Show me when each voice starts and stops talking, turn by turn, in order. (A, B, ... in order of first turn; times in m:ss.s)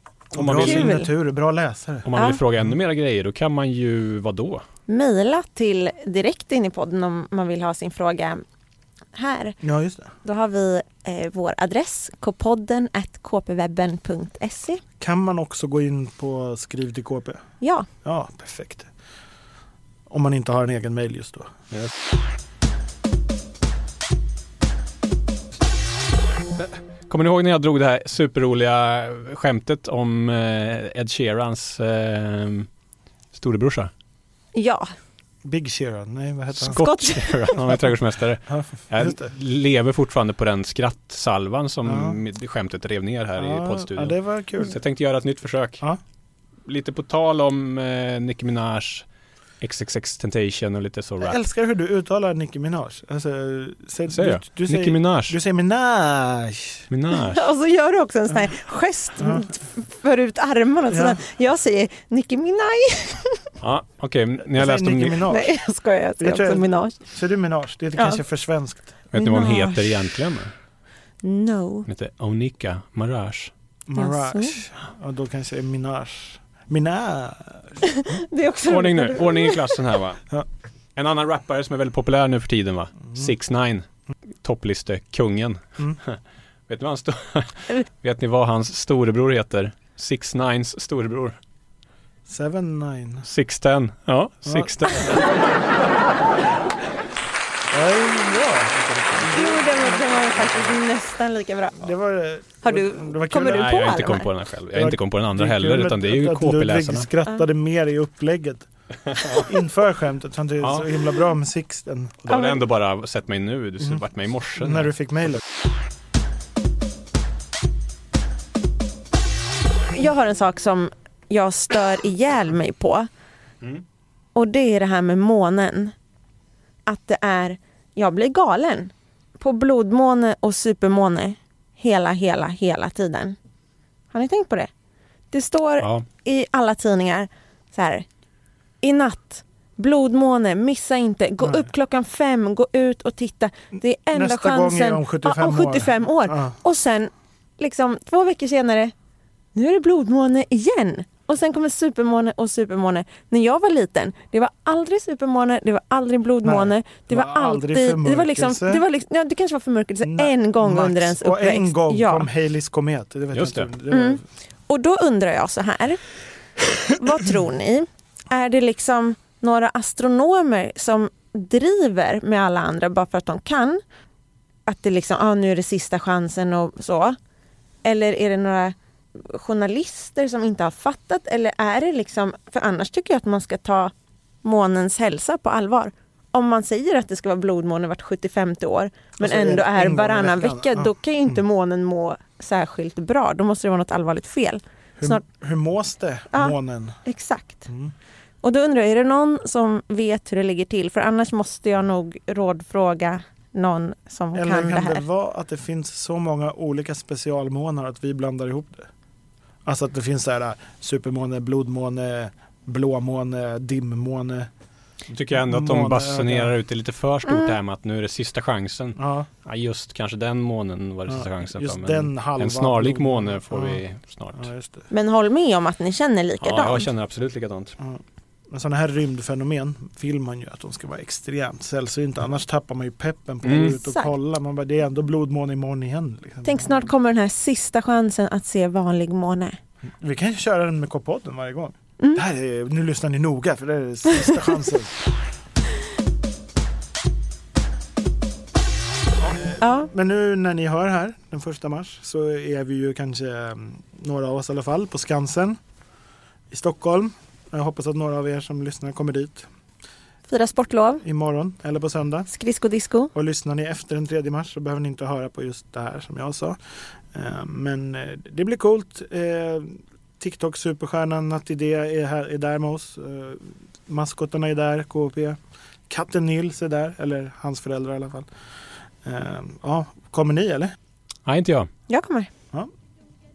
0:00.3-0:02.1 A
0:00.3-0:01.0 B
0:00.6-0:01.1 C
0:02.0-0:04.6 B
0:02.1-0:02.4 C
0:04.9-0:08.4 C
0:09.1-0:09.6 C
0:09.6-0:10.1 A
0:10.2-0:14.8 C
0:15.0-0:17.4 A
0:17.6-0:17.9 C
0:18.0-0:18.9 A
0:20.1-0:21.5 A
0:26.6-0:32.7 B
0:33.3-0:33.9 B
0:34.5-0:34.9 C
0:35.4-0:36.8 A
0:36.6-0:45.8 B
0:36.7-0:37.8 C
0:38.5-0:39.3 A
0:41.8-0:42.2 A
0:43.4-0:44.8 A
0:46.6-0:49.0 B
0:49.6-0:51.4 B
0:51.2-0:56.8 A
0:54.1-0:55.4 B
0:56.9-0:57.4 B
0:57.1-1:03.5 C
0:59.2-0:59.4 A
1:00.9-1:01.2 A
1:03.6-1:05.3 B
1:04.5-1:05.5 A
1:05.3-1:07.0 C
1:06.2-1:09.0 A
1:08.0-1:08.2 C
1:09.1-1:10.5 B
1:09.1-1:10.1 C
1:11.2-1:11.9 C
1:11.8-1:13.5 B
1:13.9-1:17.7 A
1:13.9-1:14.6 C
1:17.8-1:19.7 C
1:18.6-1:20.2 B
1:21.0-1:23.8 B
1:24.4-1:31.4 B
1:32.3-1:33.3 A
1:33.2-1:35.3 B
1:34.4-1:35.2 A
1:37.7-1:40.2 A
1:38.7-1:39.6 B
1:39.2-1:41.9 C
1:41.8-1:43.8 A
1:42.6-1:44.3 C
1:43.4-1:47.1 B
1:44.7-1:52.2 A
1:49.1-1:49.5 B
1:50.6-1:50.9 B
1:52.2-1:54.9 B
1:52.3-1:52.6 C
1:54.6-1:55.4 A
1:59.9-2:03.1 C
2:04.3-2:05.9 C
2:06.8-2:13.4 C
2:14.1-2:14.7 C
2:15.3-2:18.0 C
2:18.8-2:28.9 C
2:24.1-2:26.6 A
2:29.5-2:42.3 C
2:36.4-2:38.8 A
2:40.0-2:44.2 A
2:43.3-2:43.7 B
2:43.9-2:46.0 C
2:46.8-2:53.8 C
2:54.6-2:57.2 C
2:57.8-3:15.2 C
3:09.2-3:11.4 A
3:15.0-3:17.0 A
3:16.3-3:17.7 C
3:17.7-3:17.9 A
3:18.4-3:25.0 C
3:24.3-3:28.9 A
3:29.6-3:34.5 A
3:35.1-3:44.5 B
3:35.3-3:36.5 A
3:37.3-3:37.6 C
3:39.0-3:39.3 A
3:41.1-3:43.8 A
3:44.3-3:44.9 A
3:44.9-3:46.9 C
3:46.4-3:47.7 B
3:47.8-3:56.9 A
3:53.4-3:53.8 B
3:53.8-3:54.1 C
3:56.4-3:59.6 C
4:00.0-4:04.9 A
4:09.3-4:15.6 A
4:09.6-4:09.9 C
4:16.5-4:19.4 A
4:20.3-4:21.0 C
4:21.0-4:22.3 A
4:22.3-4:23.1 C
4:23.1-4:26.6 A
4:27.1-4:35.4 A
4:35.9-4:38.3 A
4:39.0-4:40.7 A
4:41.2-4:41.7 B
4:41.9-4:42.3 C